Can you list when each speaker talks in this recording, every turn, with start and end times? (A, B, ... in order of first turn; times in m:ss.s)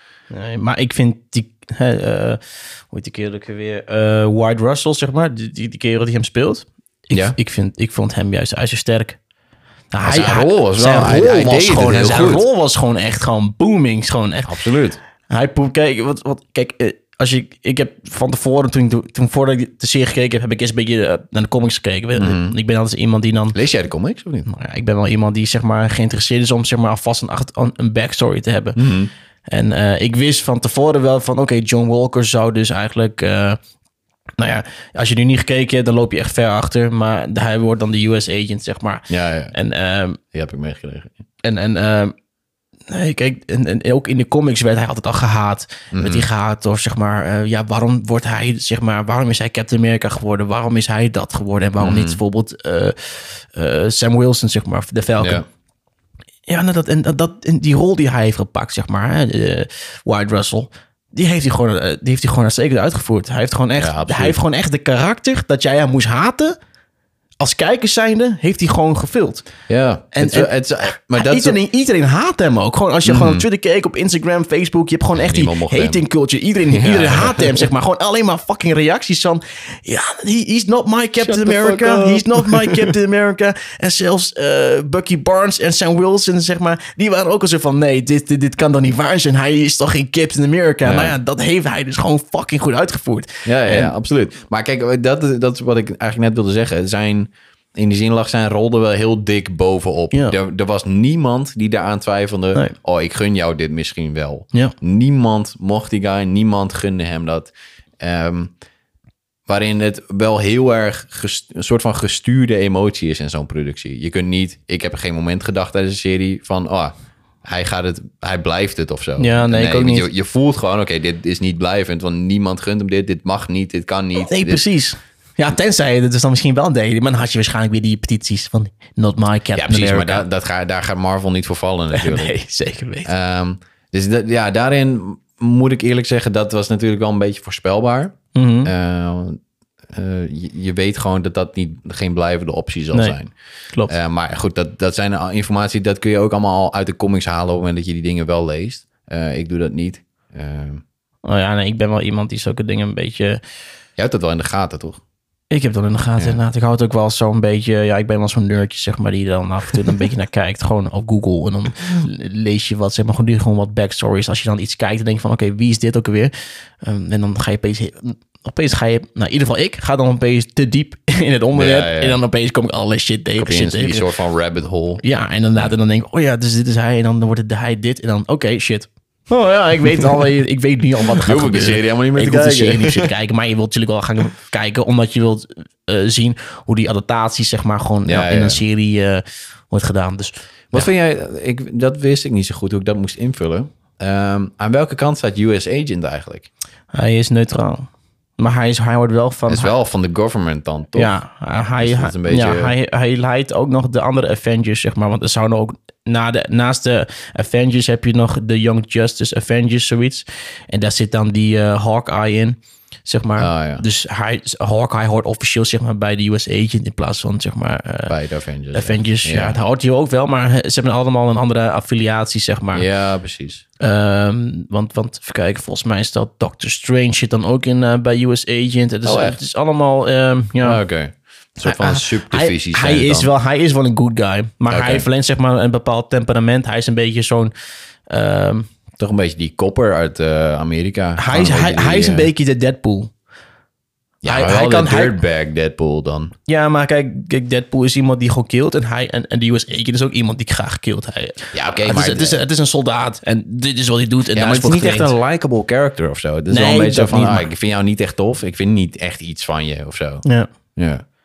0:00.3-0:09.2 A
0:07.1-0:07.4 B
0:09.9-0:14.5 A
0:10.0-0:12.5 B
0:14.5-0:15.0 B
0:15.3-0:23.6 A
0:22.2-0:22.5 B
0:23.5-0:24.5 B
0:24.5-0:28.8 A
0:28.8-0:29.1 B
0:29.5-0:33.6 A
0:34.4-0:40.2 A
0:39.1-0:39.5 B
0:40.3-0:41.2 B
0:41.4-0:42.1 A
0:42.9-0:55.4 A
0:45.9-0:46.3 B
0:51.8-0:52.2 B
0:55.2-0:55.4 B
0:56.5-1:06.6 A
1:03.8-1:04.4 B
1:07.4-1:09.5 A
1:09.7-1:11.6 B
1:10.1-1:33.9 A
1:13.0-1:13.4 B
1:15.2-1:16.0 B
1:16.7-1:17.7 B
1:21.2-1:23.0 B
1:30.8-1:31.2 B
1:33.4-1:48.5 B
1:49.5-1:56.9 B
1:57.4-2:04.6 B
1:59.2-2:00.1 A
2:04.2-2:10.2 A
2:09.6-2:12.3 B
2:11.9-2:13.1 A
2:13.0-2:23.3 B
2:18.3-2:18.7 A
2:23.9-2:30.8 B
2:31.2-2:33.4 A
2:34.0-2:35.0 B
2:35.5-2:54.1 A
2:51.6-2:52.2 B
2:53.4-2:55.0 B
2:55.0-3:10.9 A
3:01.1-3:03.1 B
3:08.1-3:08.6 B
3:10.7-3:16.5 B
3:16.9-3:19.7 A
3:19.5-3:21.2 B
3:21.0-3:38.2 A
3:21.8-3:22.7 B
3:33.4-3:33.8 B
3:38.1-3:39.6 B
3:38.7-3:42.8 A
3:42.7-3:43.6 B
3:43.8-3:50.8 A
3:49.0-3:49.4 B
3:50.6-3:53.3 B
3:51.6-3:57.5 A
3:54.7-3:55.1 B
3:58.1-3:58.7 A
3:59.0-4:02.3 B
4:01.2-4:03.1 A
4:04.2-4:06.3 B
4:04.3-4:05.2 A
4:06.5-4:15.1 A
4:11.5-4:12.4 B
4:14.3-4:20.2 B
4:16.5-4:17.5 A
4:20.8-4:21.0 B